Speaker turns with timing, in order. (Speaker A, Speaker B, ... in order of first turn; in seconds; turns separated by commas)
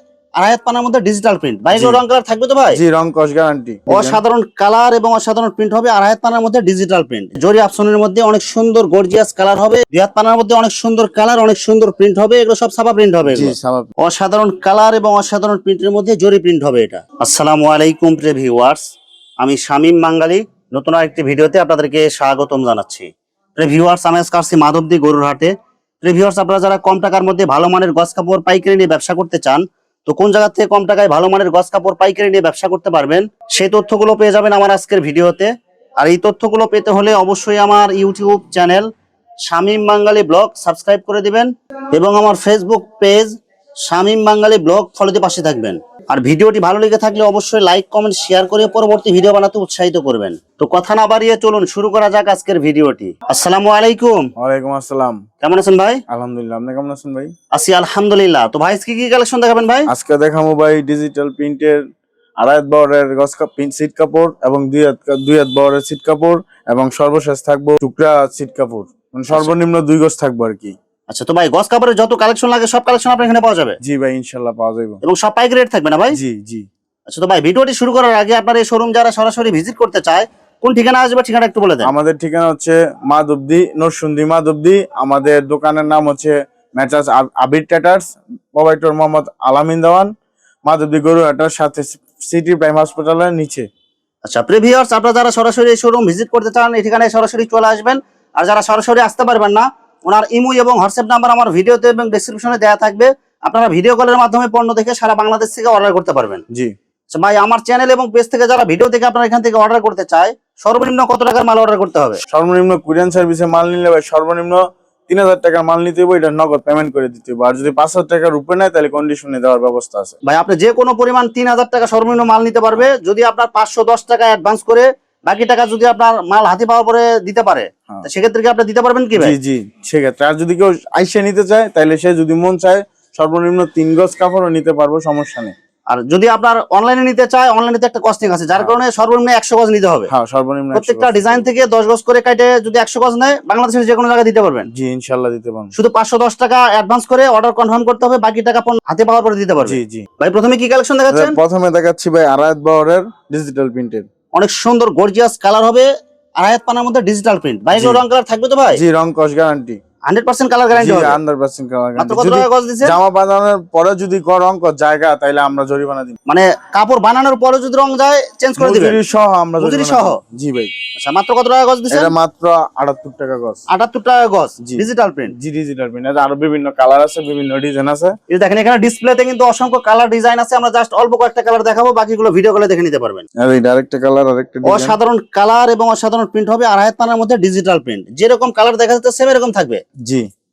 Speaker A: 0.4-2.8, Speaker B: 1.7-2.0, Speaker B: 2.7-4.2, Speaker A: 3.9-18.8, Speaker B: 13.3-13.9, Speaker A: 19.4-38.9, Speaker A: 39.5-43.3, Speaker A: 43.9-54.3, Speaker B: 54.4-55.2, Speaker A: 55.4-56.0, Speaker B: 56.1-57.3, Speaker A: 57.5-59.9, Speaker B: 59.9-61.8, Speaker B: 62.4-70.8, Speaker A: 71.1-73.8, Speaker B: 73.8-75.0, Speaker A: 75.0-76.2, Speaker B: 76.1-76.7, Speaker A: 77.1-81.9, Speaker B: 81.8-90.1, Speaker B: 90.7-93.7, Speaker A: 94.2-106.4, Speaker A: 107.1-112.2, Speaker B: 112.3-120.2, Speaker A: 120.2-129.3, Speaker B: 129.2-135.5, Speaker A: 135.9-140.1, Speaker B: 140.1-141.5, Speaker A: 140.7-144.7, Speaker B: 144.7-145.7, Speaker A: 145.7-151.4, Speaker B: 149.6-150.1, Speaker B: 151.1-154.1, Speaker A: 154.3-158.8, Speaker B: 157.7-158.0, Speaker B: 158.7-159.8, Speaker A: 160.1-161.2, Speaker B: 160.7-166.1, Speaker A: 162.0-162.9, Speaker A: 166.3-169.0, Speaker B: 168.6-170.7, Speaker A: 169.6-170.2, Speaker A: 170.9-172.1, Speaker B: 171.9-173.6, Speaker A: 173.7-175.3, Speaker B: 174.6-178.2, Speaker A: 178.3-183.2, Speaker B: 183.4-185.0, Speaker A: 184.6-189.8